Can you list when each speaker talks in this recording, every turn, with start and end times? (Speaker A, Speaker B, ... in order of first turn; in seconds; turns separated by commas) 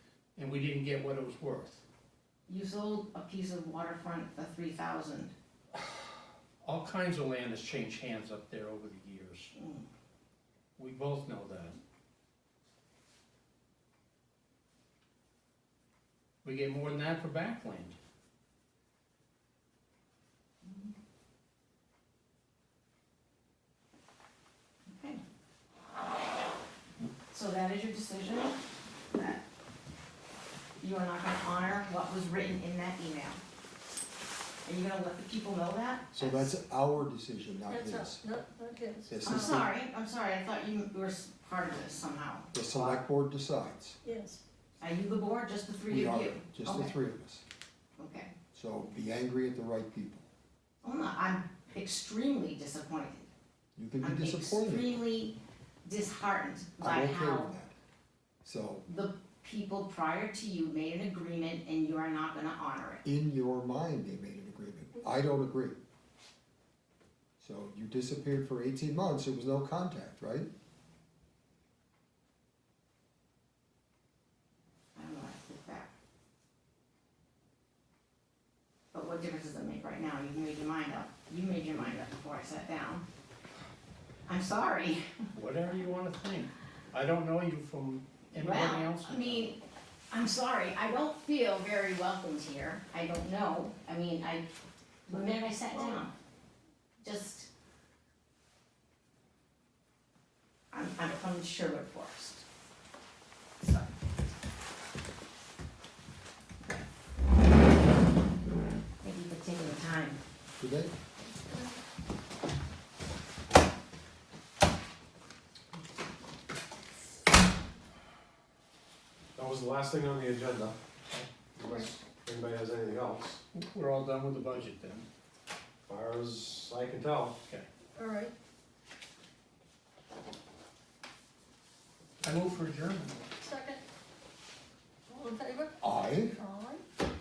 Speaker A: 0.4-1.8, Speaker B: 2.5-5.3, Speaker A: 6.6-9.5, Speaker B: 9.6-9.9, Speaker A: 10.8-11.8, Speaker A: 16.4-18.0, Speaker B: 20.6-20.9, Speaker B: 24.9-25.2, Speaker B: 27.3-28.6, Speaker B: 29.1-29.4, Speaker B: 30.8-33.4, Speaker B: 34.6-36.5, Speaker C: 36.1-38.2, Speaker D: 37.7-39.5, Speaker C: 39.1-39.7, Speaker B: 39.2-42.5, Speaker C: 42.5-44.0, Speaker D: 44.0-44.4, Speaker B: 44.8-47.0, Speaker C: 45.9-47.4, Speaker B: 48.0-48.3, Speaker C: 48.5-50.3, Speaker B: 50.8-53.3, Speaker C: 53.8-55.0, Speaker B: 54.0-57.5, Speaker C: 56.8-57.7, Speaker C: 58.4-58.9, Speaker B: 58.9-63.0, Speaker C: 63.0-65.8, Speaker C: 67.4-70.5, Speaker B: 75.0-75.9, Speaker B: 78.9-83.0, Speaker B: 84.3-85.2, Speaker A: 85.3-89.6, Speaker B: 88.3-89.6, Speaker B: 90.1-94.5, Speaker B: 95.1-96.1, Speaker D: 95.7-96.0, Speaker B: 97.0-97.5, Speaker B: 100.7-102.4, Speaker B: 109.0-110.2, Speaker C: 110.6-110.9, Speaker D: 111.3-111.6, Speaker E: 119.4-120.8, Speaker E: 121.6-123.4, Speaker D: 121.6-121.9, Speaker A: 123.5-125.1, Speaker E: 125.9-127.4, Speaker D: 128.0-128.3, Speaker A: 132.2-133.2, Speaker D: 133.4-133.8, Speaker D: 135.1-136.8, Speaker C: 135.8-136.4